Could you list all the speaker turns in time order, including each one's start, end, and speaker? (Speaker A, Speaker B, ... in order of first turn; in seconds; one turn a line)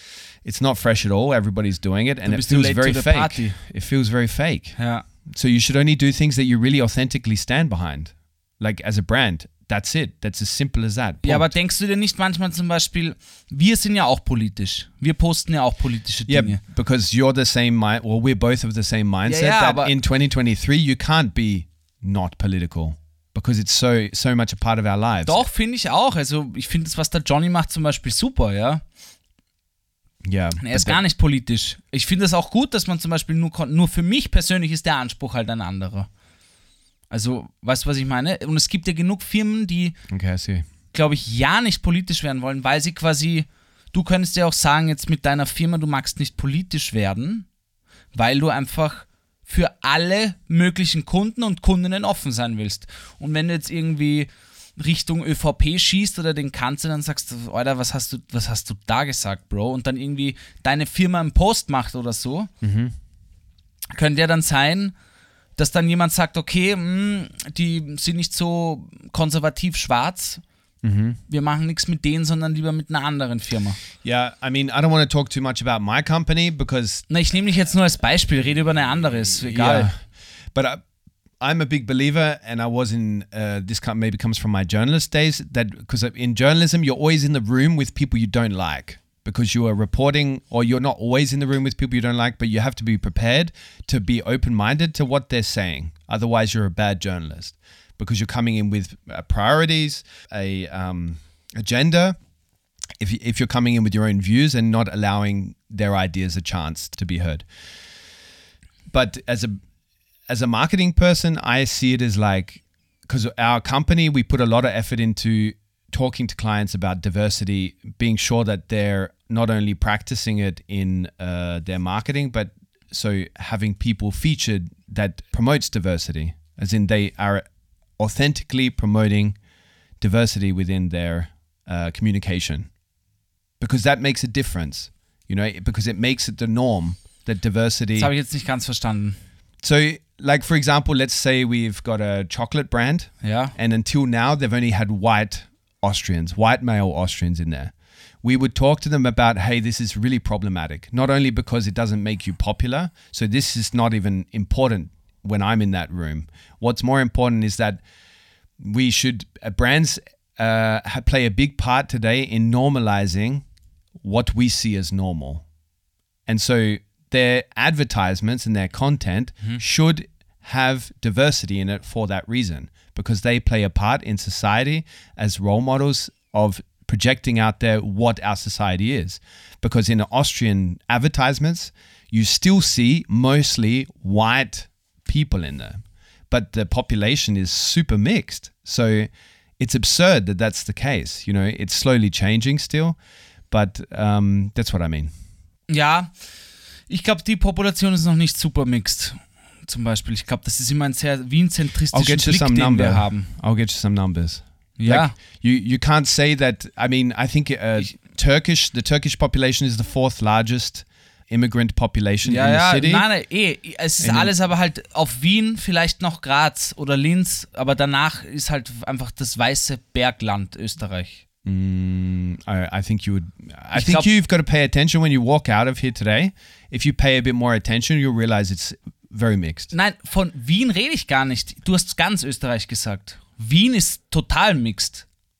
Speaker A: 0.4-11.5
Speaker B: 2.2-3.6
Speaker B: 4.8-5.0
Speaker B: 11.2-16.6
Speaker A: 16.3-25.4
Speaker B: 19.2-19.9
Speaker B: 25.2-28.8
Speaker A: 30.2-31.0
Speaker B: 30.6-36.1
Speaker B: 37.1-40.0
Speaker A: 40.1-40.7
Speaker B: 40.9-47.5
Speaker B: 48.1-62.5
Speaker A: 62.6-62.9
Speaker B: 63.9-64.9
Speaker B: 65.6-70.4
Speaker A: 70.8-71.2
Speaker B: 71.3-73.8
Speaker A: 74.0-77.1
Speaker B: 77.1-79.9
Speaker A: 79.5-80.8
Speaker A: 81.4-102.2
Speaker A: 103.0-107.5
Speaker A: 108.9-109.6
Speaker A: 110.3-127.4
Speaker A: 128.0-129.4
Speaker A: 130.0-132.7
Speaker A: 133.6-138.1
Speaker B: 138.0-139.2
Speaker A: 139.6-157.8
Speaker B: 143.2-143.5
Speaker A: 158.6-163.4
Speaker A: 164.0-165.4
Speaker A: 166.2-193.0
Speaker A: 193.5-195.1
Speaker B: 195.7-196.2
Speaker B: 196.9-203.3
Speaker A: 201.9-213.1
Speaker B: 204.8-205.2
Speaker B: 212.2-221.2
Speaker A: 214.0-214.3
Speaker A: 221.4-229.7
Speaker B: 223.7-224.1
Speaker B: 229.7-235.0